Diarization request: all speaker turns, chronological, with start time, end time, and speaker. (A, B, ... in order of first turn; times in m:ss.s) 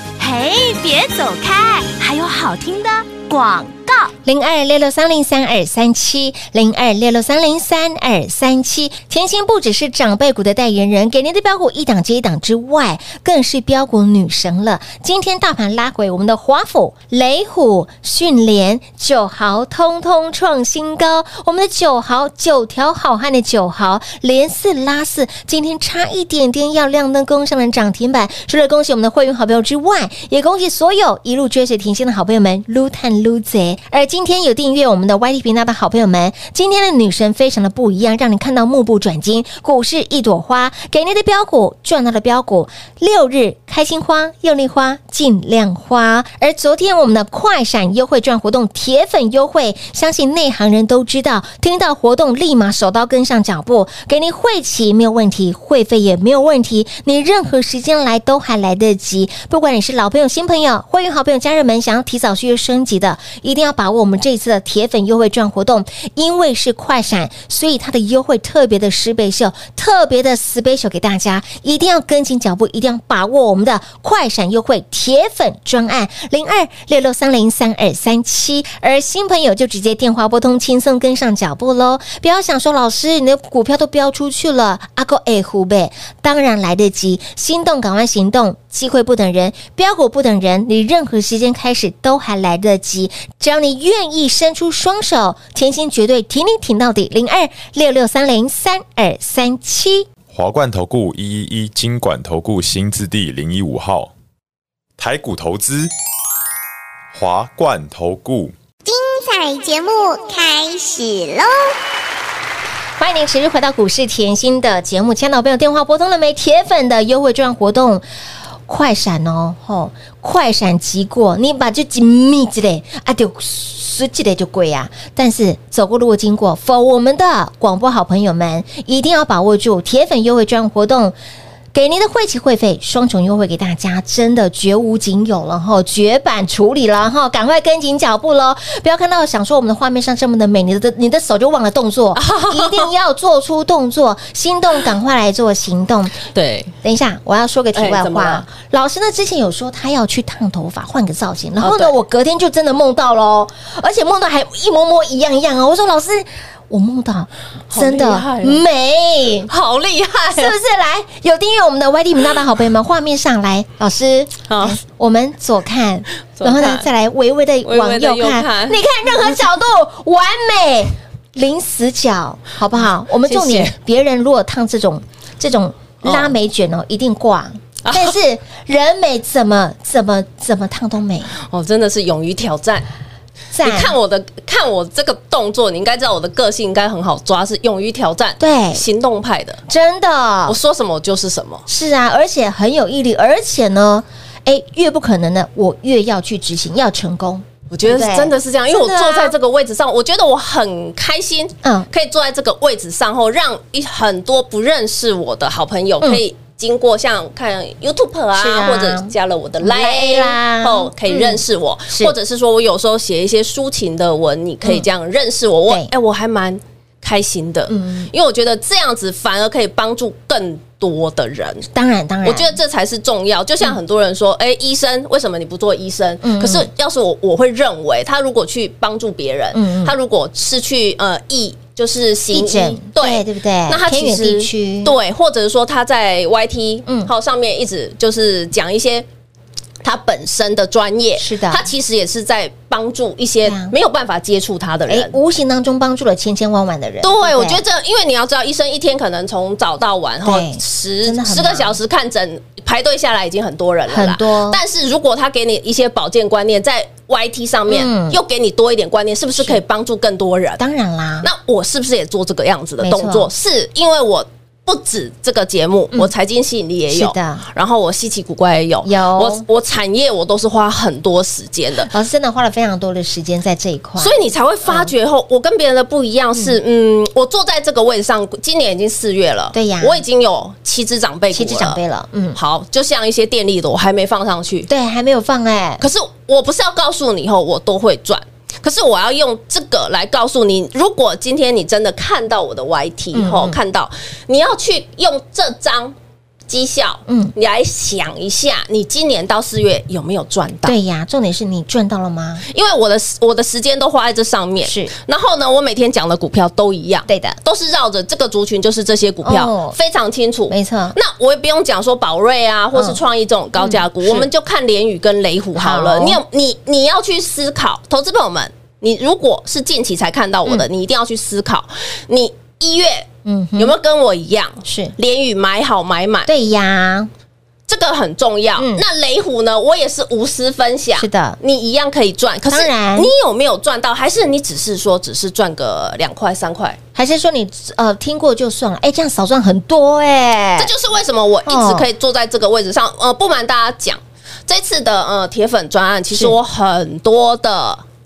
0:00.2-0:04.1 A
0:04.2-1:40.1 B
1:40.3-1:44.1 C
1:45.0-1:45.9 C
1:47.1-1:48.5 C
1:48.8-1:51.7 D
1:53.0-1:58.0 B
1:58.7-2:11.2 B
2:11.7-2:26.2 B
2:22.2-2:22.9 E
2:26.3-2:26.7 E
2:26.8-2:39.5 B
2:27.7-2:28.5 E
2:31.6-2:32.0 E
2:37.7-2:38.6 E
2:39.5-2:40.6 E
2:40.3-3:01.3 B
2:44.5-2:44.8 E
2:46.4-2:46.9 E
2:47.6-2:48.8 E
2:53.2-2:53.8 E
2:56.0-2:56.4 E
2:57.8-2:58.2 E
3:01.4-3:02.8 E
3:03.5-3:04.0 B
3:03.6-3:09.6 E
3:08.4-3:08.8 B
3:09.7-3:10.6 B
3:10.5-3:11.6 E
3:11.7-3:19.3 B
3:17.7-3:41.7 E
3:21.6-3:21.9 B
3:28.4-3:32.2 B
3:37.7-3:38.1 B
3:41.7-3:42.6 B
3:42.2-3:59.1 E
3:46.2-3:46.7 B
3:49.5-3:50.0 B
3:52.3-3:55.0 B
3:56.9-3:57.1 B
3:59.8-4:05.2 E
4:01.2-4:01.7 B
4:03.4-4:03.7 B
4:04.9-4:07.6 B
4:07.0-4:20.6 E
4:10.2-4:11.8 B
4:13.9-4:14.6 B
4:17.7-4:18.2 B
4:20.6-4:21.3 B
4:21.2-4:31.9 E
4:22.8-4:23.3 B
4:26.9-4:27.4 B
4:28.8-4:29.4 B
4:31.9-4:34.9 B
4:34.0-4:41.8 E
4:39.5-4:40.0 B
4:41.3-4:42.4 B
4:42.4-4:44.7 E
4:44.7-4:45.8 B
4:45.8-4:56.0 E
4:53.1-4:53.6 B
4:56.5-5:00.8 E
4:57.1-4:57.3 B
5:00.7-5:02.4 B
5:02.5-5:26.3 E
5:04.6-5:04.9 B
5:07.1-5:07.4 B
5:09.2-5:09.8 B
5:10.5-5:11.0 B
5:12.7-5:13.0 B
5:13.6-5:14.3 B
5:15.6-5:16.2 B
5:23.2-5:23.8 B
5:24.6-5:24.9 B
5:26.3-5:27.1 B
5:27.7-5:36.8 E
5:28.6-5:28.8 B
5:31.0-5:31.4 B
5:32.5-5:33.1 B
5:37.0-5:40.7 B
5:40.6-5:47.8 E
5:41.5-5:41.9 B
5:46.1-5:46.4 B